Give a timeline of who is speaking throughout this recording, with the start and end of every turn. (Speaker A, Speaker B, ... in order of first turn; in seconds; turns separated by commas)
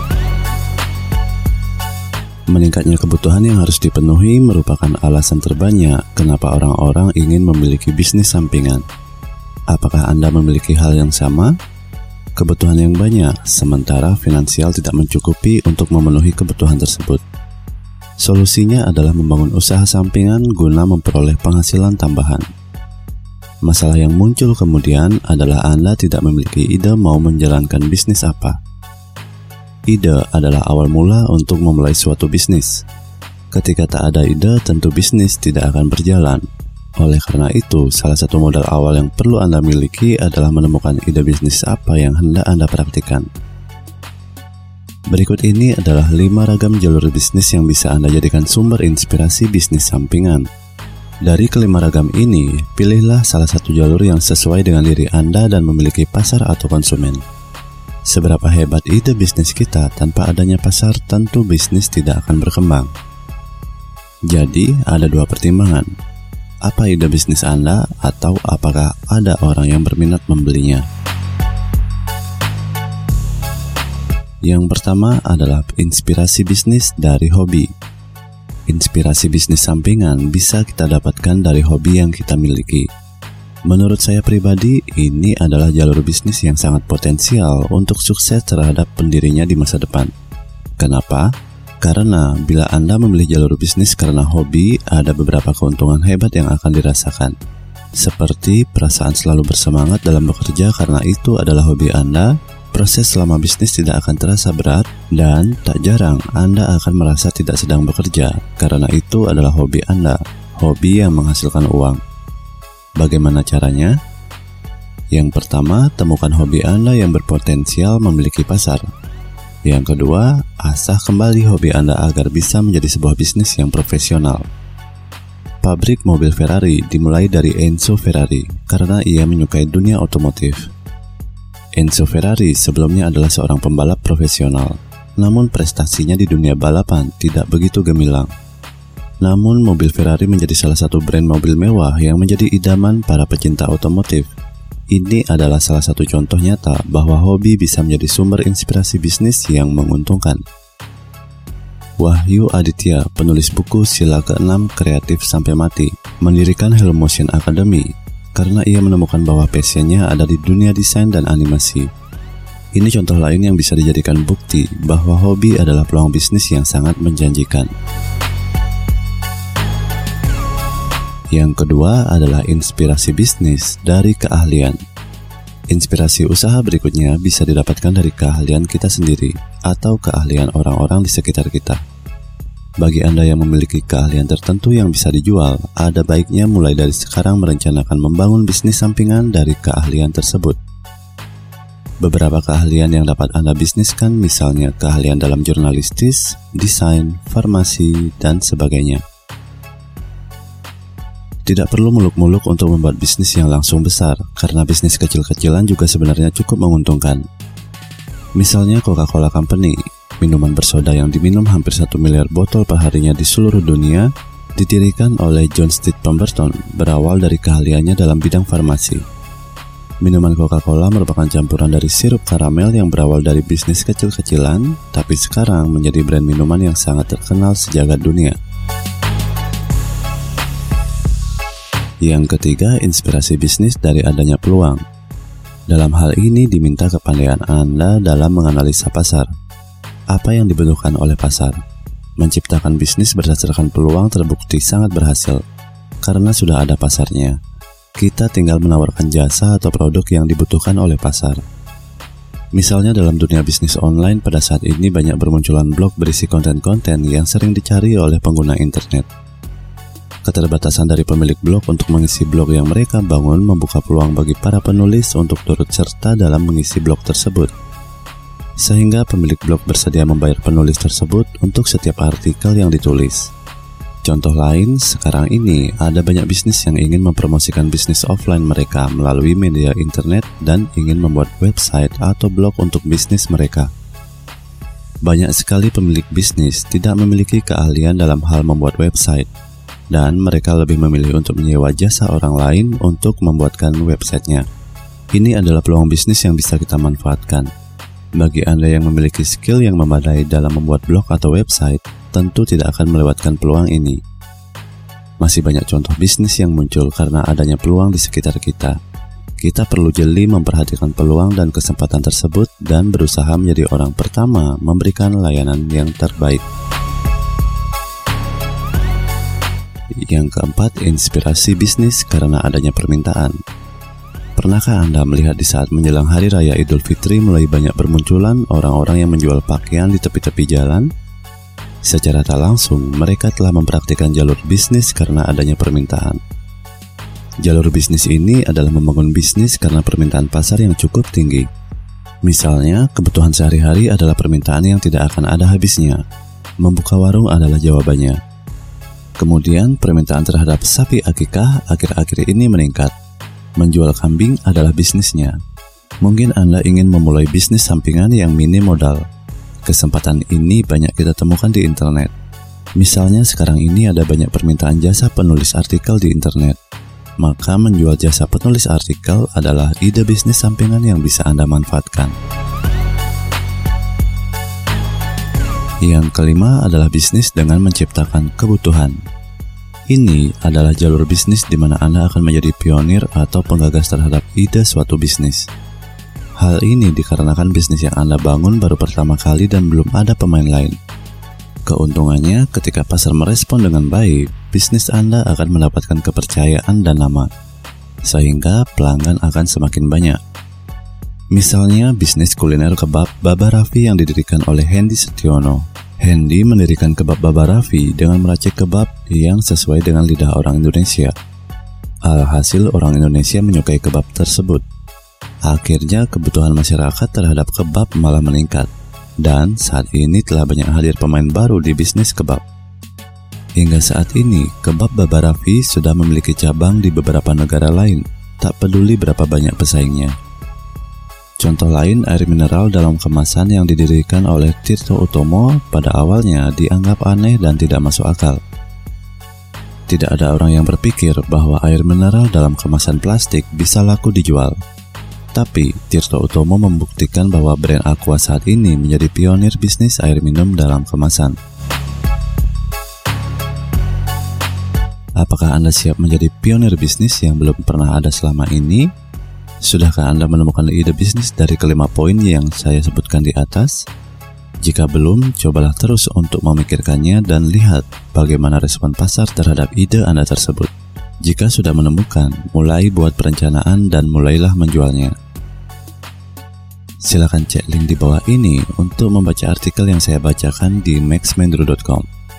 Speaker A: 2.5-8.8, Speaker A: 9.7-11.5, Speaker A: 12.4-17.2, Speaker A: 18.2-22.5, Speaker A: 23.6-28.6, Speaker A: 29.9-32.8, Speaker A: 33.5-36.4, Speaker A: 37.0-43.3, Speaker A: 45.1-50.5, Speaker A: 51.2-57.2, Speaker A: 58.1-62.9, Speaker A: 64.3-65.9, Speaker A: 66.6-70.8, Speaker A: 74.4-77.7, Speaker A: 78.7-82.9, Speaker A: 83.7-90.1, Speaker A: 90.8-91.3, Speaker A: 91.8-97.3, Speaker A: 98.0-112.0, Speaker A: 113.0-114.0, Speaker A: 115.1-118.9, Speaker A: 119.6-124.5, Speaker A: 125.6-130.7, Speaker A: 131.8-138.3, Speaker A: 139.2-144.3, Speaker A: 144.9-150.4, Speaker A: 152.0-161.9, Speaker A: 162.8-167.7, Speaker A: 171.3-174.8, Speaker A: 175.7-181.8, Speaker A: 182.8-190.6, Speaker A: 192.0-199.0, Speaker A: 201.5-207.2, Speaker A: 208.4-219.0, Speaker A: 220.0-228.4, Speaker A: 232.0-234.8, Speaker A: 235.7-239.3, Speaker A: 240.1-241.6, Speaker A: 242.2-245.4, Speaker A: 246.0-247.4, Speaker A: 248.0-251.4, Speaker A: 252.5-259.1, Speaker A: 260.2-267.5, Speaker A: 268.6-273.3, Speaker A: 274.0-283.7, Speaker A: 285.0-289.3, Speaker A: 289.9-294.5, Speaker A: 295.1-297.5, Speaker A: 298.2-304.0, Speaker A: 305.2-308.8, Speaker A: 309.4-316.4, Speaker A: 320.1-323.4, Speaker A: 324.4-330.9, Speaker A: 331.8-336.2, Speaker A: 337.4-341.5, Speaker A: 342.2-346.0, Speaker A: 346.6-348.2, Speaker A: 349.2-352.9, Speaker A: 353.6-355.4, Speaker A: 356.0-359.0, Speaker A: 359.6-362.1, Speaker A: 362.8-366.6, Speaker A: 367.2-372.2, Speaker A: 375.8-379.0, Speaker A: 379.9-385.5, Speaker A: 386.4-390.8, Speaker A: 391.7-397.3, Speaker A: 398.0-400.2, Speaker A: 401.3-411.1, Speaker A: 412.1-414.6, Speaker A: 415.4-418.7, Speaker A: 419.2-422.4, Speaker A: 423.6-430.1, Speaker A: 431.4-438.4, Speaker A: 439.9-444.6, Speaker A: 445.3-451.4, Speaker A: 455.2-458.9, Speaker A: 459.6-463.9, Speaker A: 464.6-470.7, Speaker A: 471.2-475.1, Speaker A: 477.0-482.1